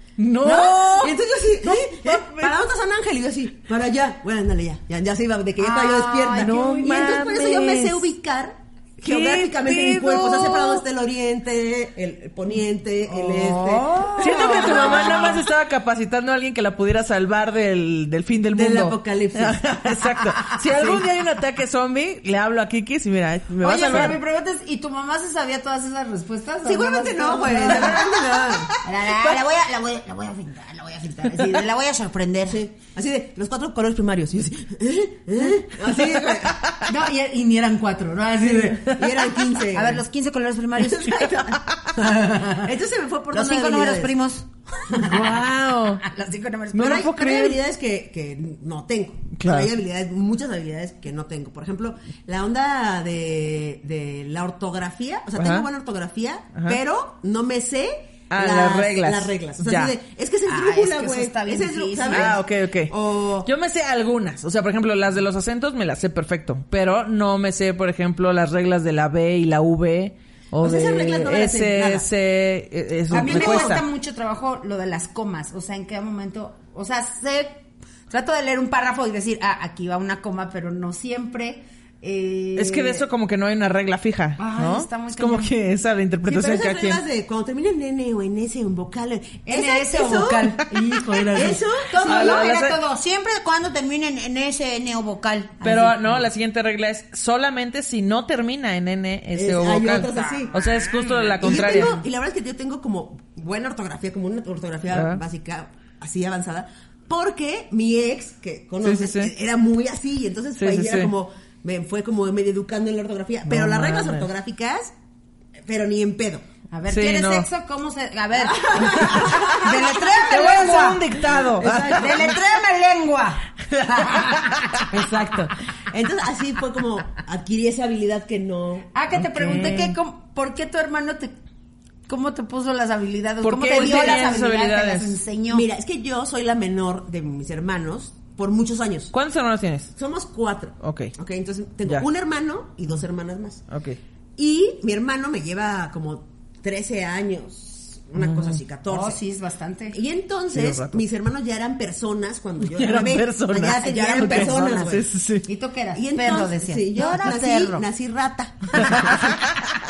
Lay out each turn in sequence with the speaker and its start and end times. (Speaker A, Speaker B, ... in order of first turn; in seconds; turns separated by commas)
Speaker A: 0.2-2.6, Speaker B: 0.4-15.4, Speaker C: 5.6-7.1, Speaker A: 6.3-8.0, Speaker A: 9.0-10.8, Speaker A: 13.1-24.2, Speaker C: 13.9-15.4, Speaker B: 18.5-19.6, Speaker B: 20.7-21.0, Speaker C: 23.6-32.6, Speaker B: 26.6-29.4, Speaker B: 32.5-36.6, Speaker C: 36.8-39.0, Speaker B: 38.5-40.0, Speaker C: 39.7-41.2, Speaker B: 40.8-44.1, Speaker C: 42.0-42.7, Speaker C: 43.3-45.2, Speaker A: 44.9-46.0, Speaker C: 46.0-47.1, Speaker B: 46.7-63.5, Speaker A: 46.7-47.5, Speaker A: 49.4-49.7, Speaker A: 55.4-55.7, Speaker A: 58.3-59.9, Speaker C: 60.5-62.3, Speaker A: 62.1-73.8, Speaker B: 70.6-72.1, Speaker B: 73.1-73.8, Speaker C: 73.1-83.0, Speaker A: 82.5-87.0, Speaker C: 84.4-85.5, Speaker B: 86.2-90.7, Speaker C: 89.5-96.0, Speaker B: 91.3-92.4, Speaker A: 91.3-92.8, Speaker A: 95.6-102.0, Speaker B: 99.3-100.6, Speaker C: 100.6-101.9, Speaker B: 101.4-114.9, Speaker A: 104.9-105.2, Speaker A: 108.8-109.3, Speaker A: 110.6-111.1, Speaker A: 113.5-114.3, Speaker B: 115.6-116.4, Speaker C: 116.7-121.1, Speaker A: 116.9-117.5, Speaker B: 118.3-120.5, Speaker A: 119.0-119.3, Speaker A: 120.3-122.3, Speaker B: 121.2-122.3, Speaker C: 121.9-125.5, Speaker A: 123.7-125.4, Speaker B: 125.9-129.7, Speaker C: 128.9-131.3, Speaker A: 129.2-130.0, Speaker C: 132.1-135.7, Speaker A: 133.4-135.2, Speaker B: 133.7-134.4, Speaker B: 135.5-139.1, Speaker A: 139.1-139.9, Speaker B: 139.9-143.6, Speaker A: 140.8-141.1, Speaker A: 143.7-144.0, Speaker B: 144.4-149.2, Speaker A: 148.2-148.6, Speaker C: 148.9-150.0, Speaker B: 149.9-155.1, Speaker A: 150.5-151.0, Speaker A: 152.6-155.4, Speaker C: 153.8-157.8, Speaker B: 155.9-159.4, Speaker A: 158.8-159.3